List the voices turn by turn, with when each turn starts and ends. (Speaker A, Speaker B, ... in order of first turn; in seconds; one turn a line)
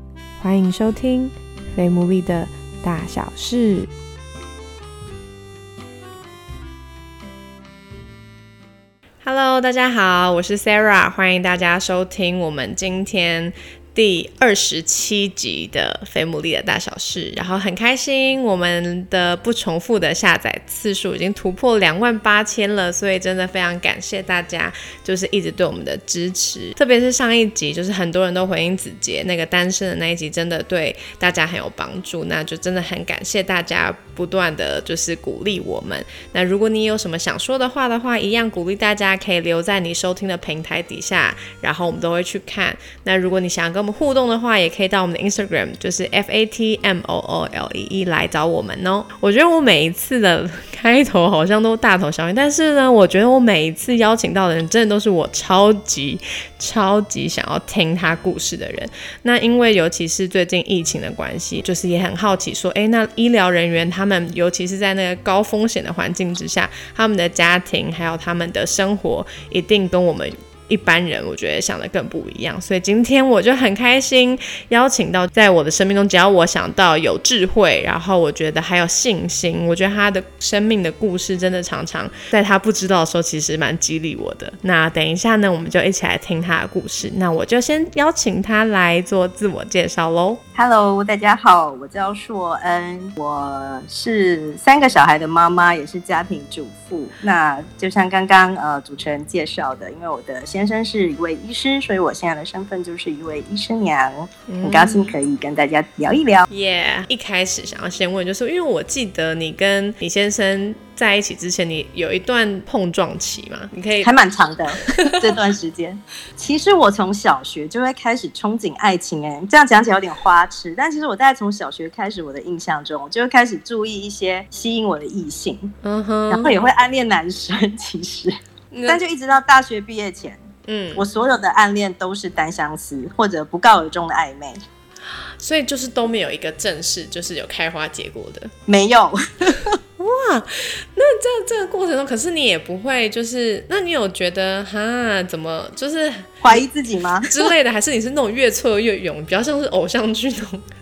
Speaker A: 0.4-3.9
Speaker A: 9.2-90.4
Speaker B: 90.5-106.5
Speaker A: 104.5-105.2
Speaker A: 106.5-114.1
Speaker B: 114.0-125.7
Speaker A: 125.8-126.6
Speaker B: 126.3-128.3
Speaker A: 128.7-129.0
Speaker B: 128.9-130.4
Speaker A: 130.7-131.1
Speaker B: 130.9-134.6
Speaker A: 135.4-138.5
Speaker B: 138.7-139.7
Speaker A: 140.0-146.7
Speaker B: 146.4-147.3
Speaker A: 147.3-150.7